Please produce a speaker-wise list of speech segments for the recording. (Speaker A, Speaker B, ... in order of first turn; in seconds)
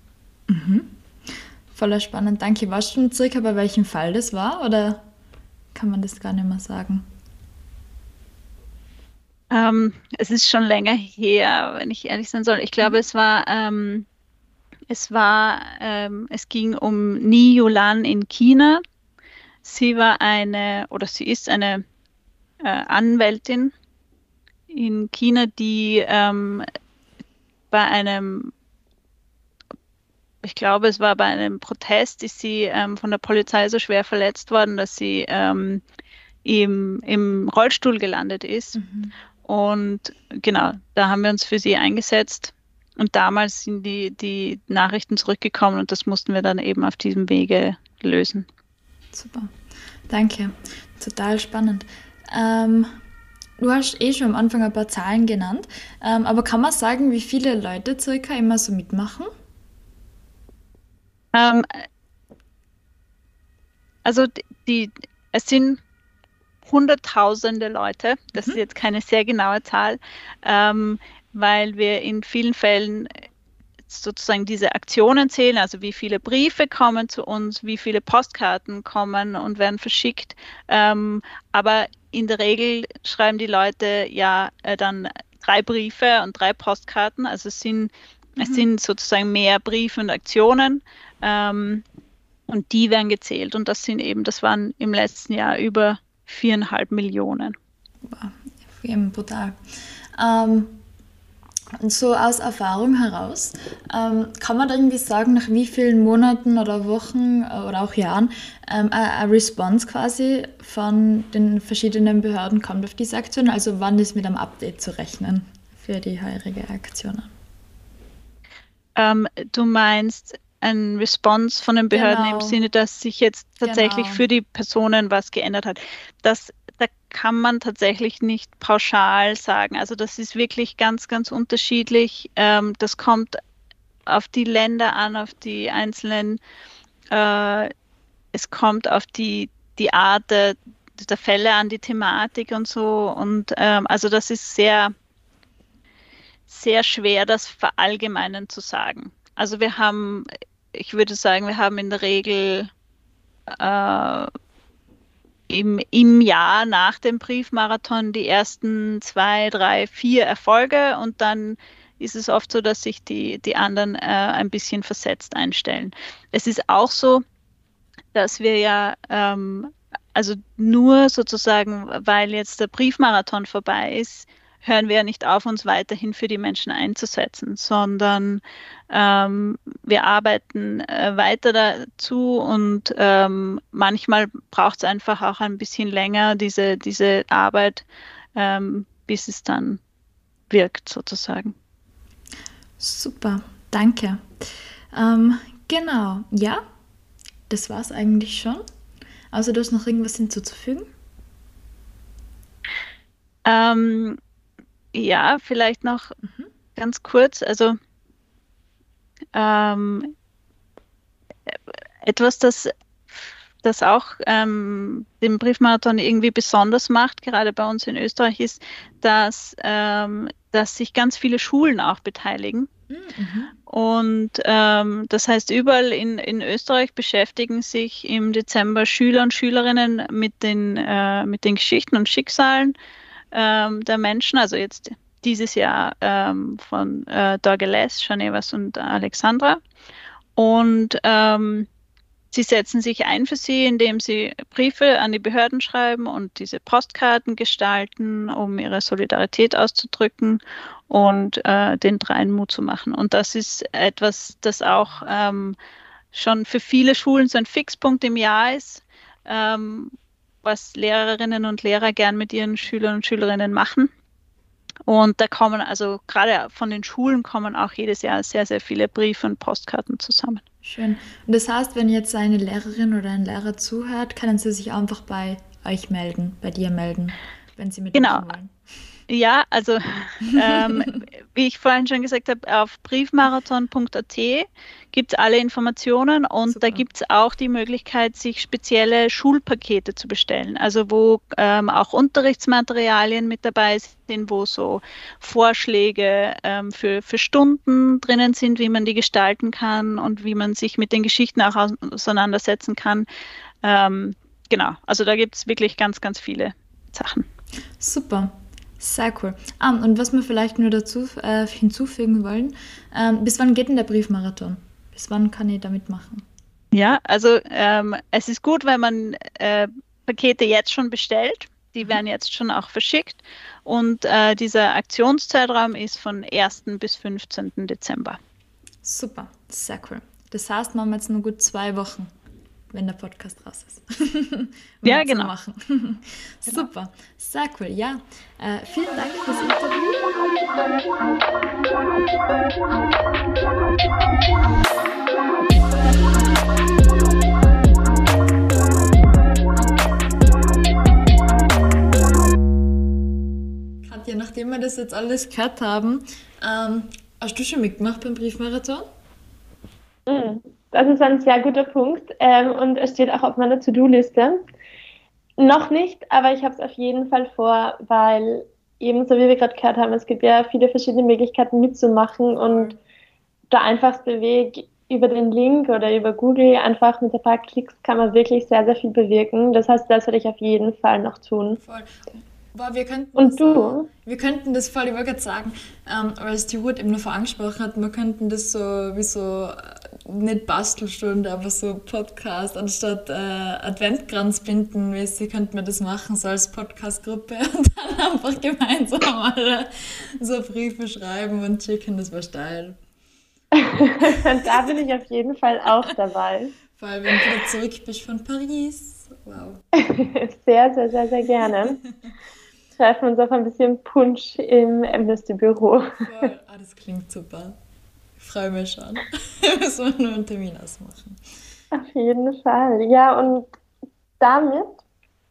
Speaker A: 0.5-0.9, 1.7-5.0, 5.7-7.0, 38.7-39.1, 49.1-49.5, 50.1-52.9, 53.6-59.3, 88.4-88.7, 98.0-99.6, 100.2-100.8, 101.8-117.3, 121.9-122.6, 123.6-124.2, 192.8-196.6, 197.5-198.6, 199.3-200.9, 206.2-206.5, 222.9-223.5, 270.6-278.5, 280.4-281.0, 286.5-286.8, 307.8-316.2, 328.8-332.1, 332.7-340.0, 353.8-358.9, 372.3-372.8, 381.6-382.0, 382.5-402.8, 406.7-409.6, 416.0-417.6, 418.2-421.2
Speaker B: 9.5-14.1, 14.9-18.8, 19.6-21.8, 22.6-23.7, 24.7-26.6, 27.7-28.5, 30.4-35.8, 36.4-38.8, 39.5-48.5, 61.3-61.8, 64.0-65.8, 66.6-73.1, 73.9-91.8, 92.5-97.5, 119.0-133.4, 134.1-136.4, 137.1-137.7, 138.3-144.9, 146.5-152.7, 153.5-154.3, 155.5-167.2, 168.1-187.8, 188.3-189.8, 190.5-191.5, 203.4-204.2, 204.9-206.1, 206.7-207.7, 209.3-210.1, 211.5-222.7, 223.7-232.7, 233.3-239.6, 240.4-241.7, 242.3-255.6, 256.1-263.9, 264.9-270.4, 277.9-278.2, 279.1-303.1, 303.6-307.2, 316.7-328.2, 334.8-335.3
Speaker C: 360.1-364.4, 365.4-372.7, 373.5-381.6, 383.1-383.9, 403.6-406.5, 409.8-411.8, 412.8-416.3, 421.7-423.5, 424.2-424.8